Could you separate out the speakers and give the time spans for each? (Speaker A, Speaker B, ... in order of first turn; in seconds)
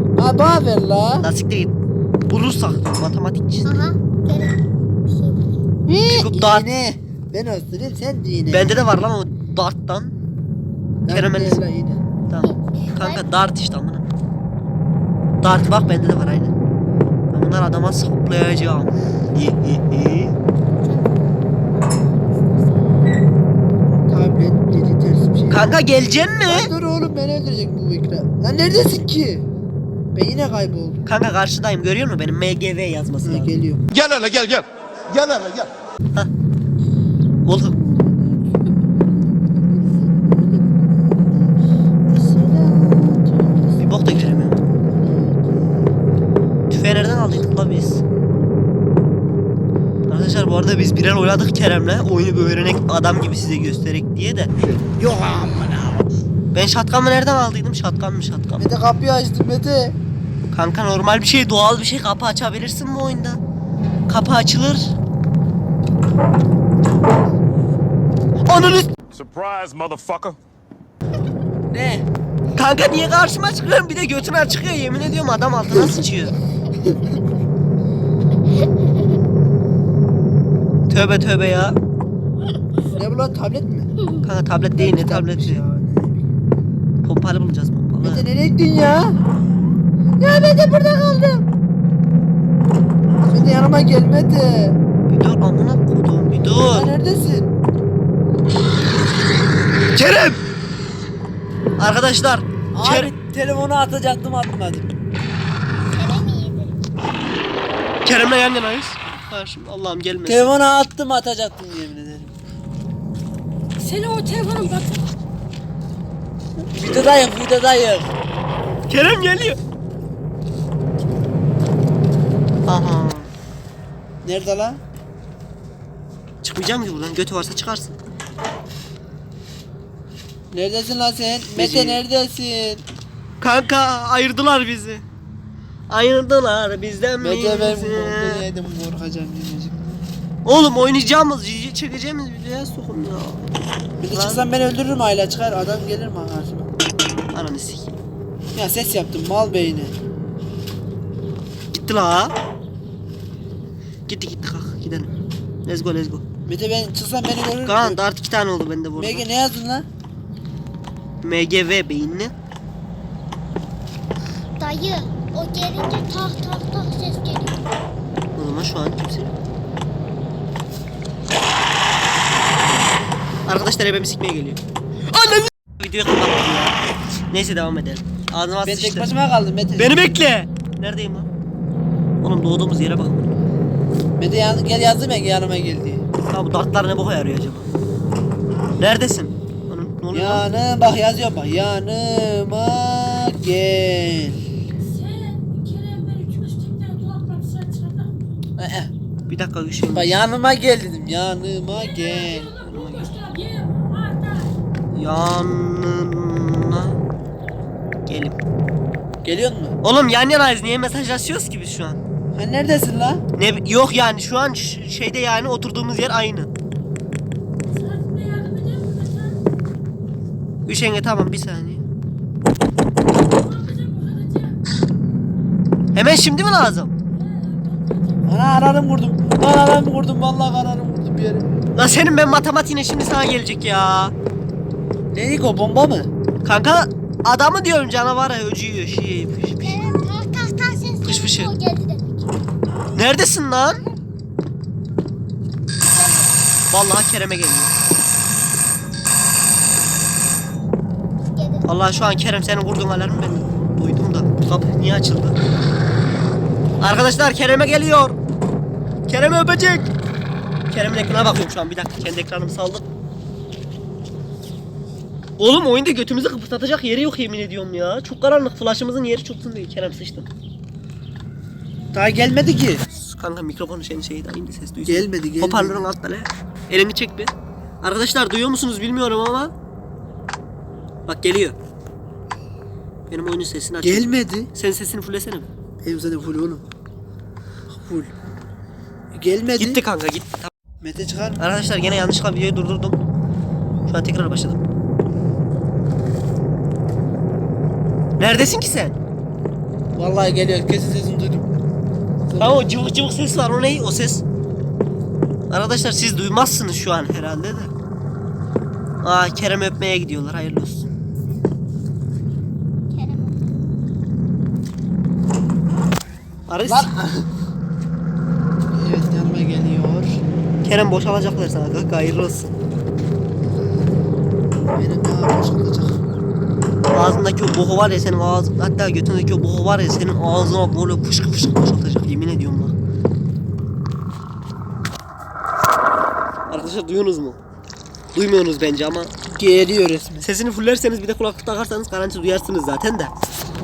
Speaker A: 0.2-1.3, 5.9-8.9, 11.1-12.0, 23.9-25.7, 26.4-29.5, 30.1-31.0, 33.2-33.8, 37.6-45.9, 58.6-60.0, 71.7-72.1, 82.9-83.9, 84.8-86.3, 88.0-89.2, 90.2-91.5, 93.3-94.8, 96.6-97.5, 102.7-104.9, 110.2-112.3, 116.7-118.1, 124.2-124.8, 130.5-132.8, 137.2-140.0, 144.0-146.7, 148.5-149.9, 156.5-158.0, 159.0-159.9, 178.7-180.2, 184.2-186.0, 190.1-194.4, 198.6-198.9, 199.9-202.5, 209.2-209.8, 212.3-213.2, 228.2-231.5, 235.1-236.1, 271.9-272.8, 274.9-275.8, 283.8-284.5, 285.8-286.6, 287.7-288.1, 289.1-289.8, 290.8-291.4, 299.9-301.5, 302.3-302.6, 316.6-317.3, 318.7-320.2, 324.7-326.0, 339.3-340.3
Speaker B: 1.2-1.8, 2.3-3.8, 6.1-6.7, 8.5-10.1, 11.1-11.6, 12.3-14.1, 15.4-16.5, 17.3-20.4, 25.5-26.7, 31.1-33.5, 37.5-37.8, 43.8-44.7, 46.7-48.0, 50.1-54.5, 56.5-58.7, 60.5-63.4, 64.1-64.9, 68.5-68.9, 72.6-76.3, 80.9-81.8, 84.2-85.6, 87.0-88.3, 95.1-96.9, 99.9-100.4, 101.8-103.1, 108.0-110.5, 118.9-119.6, 122.7-123.3, 126.4-128.0, 131.6-132.0, 133.4-135.0, 135.9-138.5, 140.4-143.4, 144.1-144.4, 147.3-148.0, 151.7-152.3, 154.1-155.1, 155.7-156.2, 157.6-159.3, 161.2-162.3, 168.4-169.3, 173.5-176.8, 177.3-179.1, 179.8-181.3, 182.2-183.3, 186.3-187.7, 188.8-190.5, 199.3-200.2, 202.7-203.1, 204.9-207.0, 208.1-208.4, 209.8-212.0, 213.4-216.5, 220.7-221.8, 225.9-226.9, 231.8-234.1, 236.4-239.9, 241.0-241.5, 242.9-243.8, 246.7-247.7, 251.7-255.4, 256.8-258.2, 259.1-259.9, 260.7-262.9, 265.4-270.3, 273.0-279.5, 281.1-281.6, 283.1-285.5, 289.6-290.5, 291.4-293.0, 293.9-294.6, 298.2-299.0, 302.4-304.2, 305.5-307.7, 309.0-310.9, 316.5-316.9, 320.6-322.5, 326.9-332.7, 336.5-337.4, 338.1-339.1, 340.2-343.1
Speaker C: 3.6-5.5, 12.4-13.2, 20.8-21.1, 105.9-106.8, 164.6-167.6, 239.6-242.3, 245.8-246.6, 251.3-251.7, 312.9-313.7
Speaker D: 33.9-35.7, 54.6-56.0, 69.1-70.4
Speaker E: 113.8-115.0, 194.8-198.2, 201.7-204.5, 217.7-219.4, 223.2-224.6, 227.1-228.4